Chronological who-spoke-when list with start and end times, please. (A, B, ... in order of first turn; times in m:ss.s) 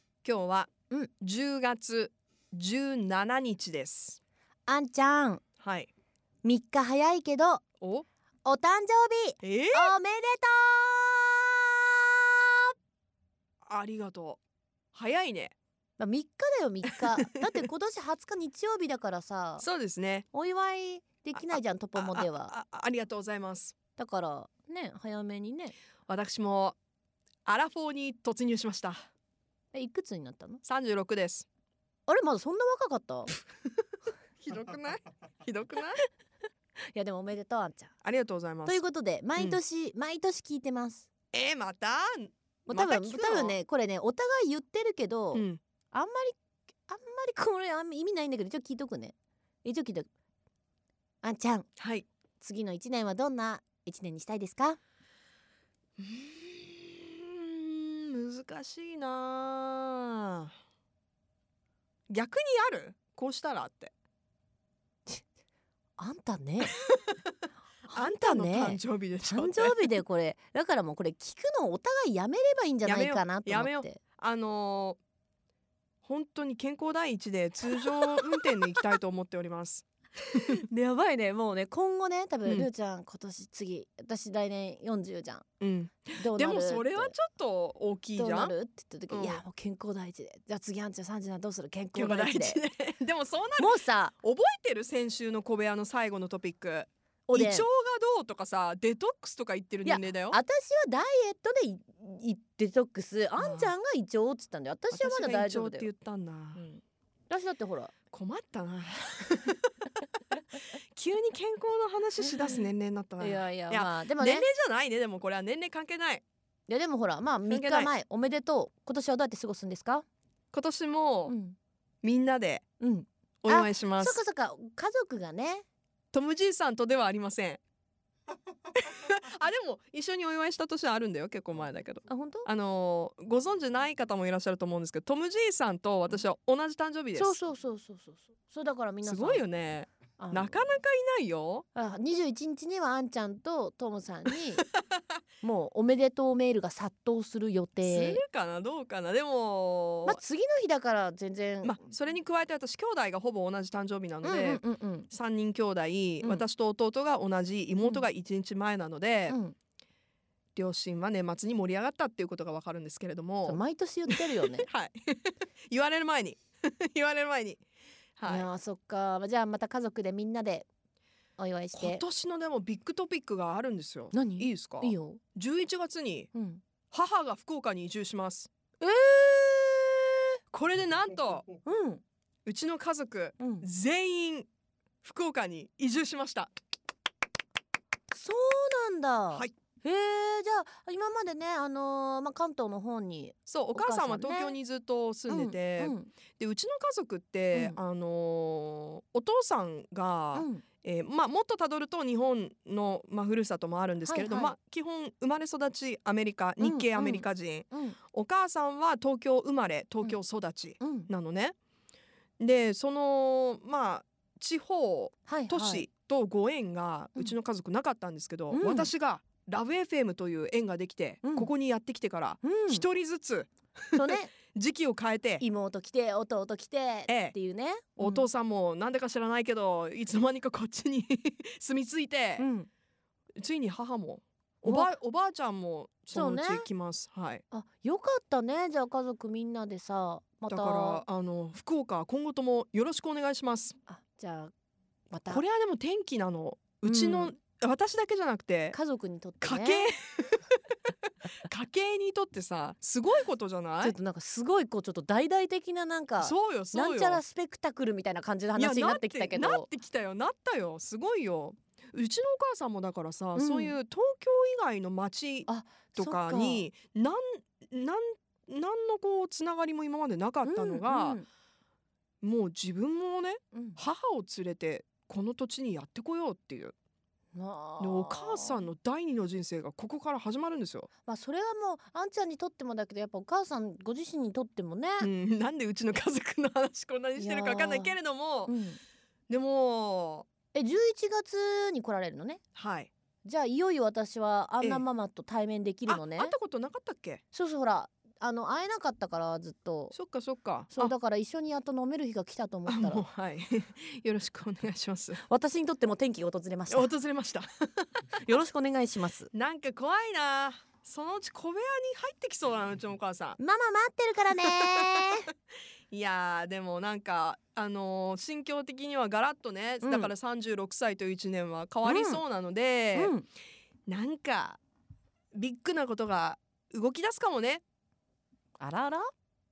0:00.2-0:04.2 A
0:04.7-0:05.4 B
0:05.6-0:05.9 A
0:06.4-0:07.6 B
0:07.8-0:08.0 A
0:08.4-0:12.1 B
0:09.4-0:09.9 A
0:13.6-0:14.4 A
0:14.9-0:15.5 A
0:16.0-0:19.6 B
0:19.6-0:20.2 A
0:20.3-0:22.5 B
0:21.4-0:23.8 A
0:24.0-0:25.7 B
0:26.1-0:26.8 A
0:27.4-0:29.1 A
0:29.7-0:30.6 B
0:30.6-0:31.5 A
0:32.1-0:33.3 B
0:34.4-0:36.0 A
0:36.9-0:37.9 B
0:38.0-0:38.8 A
0:38.6-0:41.1 B
0:41.3-0:43.6 A
0:42.7-0:46.4 B
0:45.3-0:45.6 A
0:46.9-0:50.1 B
0:51.2-0:51.7 B
0:51.8-0:52.1 A
0:52.4-0:54.8 B
0:56.0-1:00.5 A
1:02.1-1:03.9 A
1:06.0-1:06.7 B
1:07.9-1:14.0 B
1:07.9-1:10.0 A
1:12.8-1:15.0 A
1:16.0-1:19.8 A
1:17.7-1:18.8 B
1:20.5-1:25.4 B
1:25.6-1:28.5 A
1:26.2-1:27.1 B
1:28.2-1:32.6 B
1:29.1-1:29.4 A
1:31.9-1:40.4 A
1:33.6-1:34.1 B
1:37.3-1:37.7 B
1:39.8-1:45.9 B
1:43.4-1:43.7 A
1:44.9-1:46.7 A
1:46.6-1:47.9 B
1:48.1-1:49.7 A
1:50.9-1:56.2 A
1:52.3-1:52.6 B
1:53.2-1:54.5 B
1:56.7-2:00.0 B
1:57.5-1:57.9 A
2:00.5-2:01.3 A
2:01.3-2:01.6 B
2:02.0-2:02.6 A
2:02.8-2:05.6 B
2:03.4-2:04.2 A
2:06.1-2:07.6 A
2:08.7-2:17.4 A
2:12.1-2:12.5 B
2:17.2-2:19.4 B
2:19.0-2:21.6 A
2:20.2-2:20.7 B
2:21.7-2:24.6 B
2:25.4-2:28.2 B
2:27.8-2:30.2 A
2:30.0-2:31.8 B
2:31.6-2:39.4 A
2:34.2-2:35.1 B
2:39.3-2:39.5 B
2:40.5-2:47.6 A
2:43.4-2:44.7 B
2:48.2-2:48.5 A
2:48.3-2:50.6 B
2:51.4-2:52.0 B
2:51.8-2:56.3 A
2:54.1-2:55.2 B
2:56.3-2:56.6 B
2:56.9-2:58.5 A
2:58.8-3:00.1 B
3:00.5-3:01.5 A
3:01.6-3:02.0 B
3:02.4-3:04.5 A
3:03.4-3:03.6 B
3:05.0-3:06.5 A
3:08.1-3:14.6 B
3:13.5-3:31.5 A
3:15.3-3:16.1 B
3:17.5-3:17.8 B
3:20.3-3:20.6 B
3:24.0-3:24.5 B
3:26.6-3:28.0 B
3:30.8-3:31.1 B
3:32.4-3:45.4 A
3:35.3-3:35.9 B
3:38.5-3:38.9 B
3:41.2-3:41.5 B
3:42.4-3:42.8 B
3:43.9-3:44.3 B
3:45.4-3:48.2 B
3:47.1-3:47.3 A
3:48.0-3:52.4 A
3:52.4-3:52.7 B
3:53.4-3:57.4 A
3:54.6-3:54.9 B
3:56.1-3:56.7 B
3:57.5-4:01.0 B
4:00.5-4:03.8 A
4:03.9-4:04.5 B
4:05.1-4:05.4 B
4:05.3-4:08.8 A
4:06.8-4:07.3 B
4:08.7-4:09.9 B
4:09.4-4:10.6 A
4:11.5-4:14.0 A
4:13.8-4:19.7 B
4:16.2-4:17.2 A
4:18.6-4:31.2 A
4:23.4-4:23.7 B
4:25.5-4:26.6 B
4:30.4-4:31.3 B
4:32.2-4:36.7 A
4:33.5-4:33.8 B
4:37.3-4:38.7 B
4:37.8-4:40.9 A
4:41.1-4:45.1 B
4:45.0-4:48.5 A
4:47.2-4:48.8 B
4:49.3-4:50.3 A
4:50.5-4:52.4 B
4:52.6-4:52.9 A
4:53.2-4:56.3 B
4:55.9-4:57.2 A
4:57.3-4:59.9 B
4:59.9-5:00.9 A
5:00.7-5:03.0 B
5:02.7-5:05.2 A
5:05.3-5:06.9 B
5:06.7-5:07.9 A
5:08.2-5:09.3 B
5:09.3-5:13.4 A
5:13.4-5:15.3 B
5:14.5-5:15.0 A
5:15.9-5:23.1 A
5:19.8-5:20.1 B
5:21.8-5:22.2 B
5:22.9-5:23.3 B
5:23.9-5:24.6 A
5:25.3-5:27.6 A
5:28.6-5:29.1 B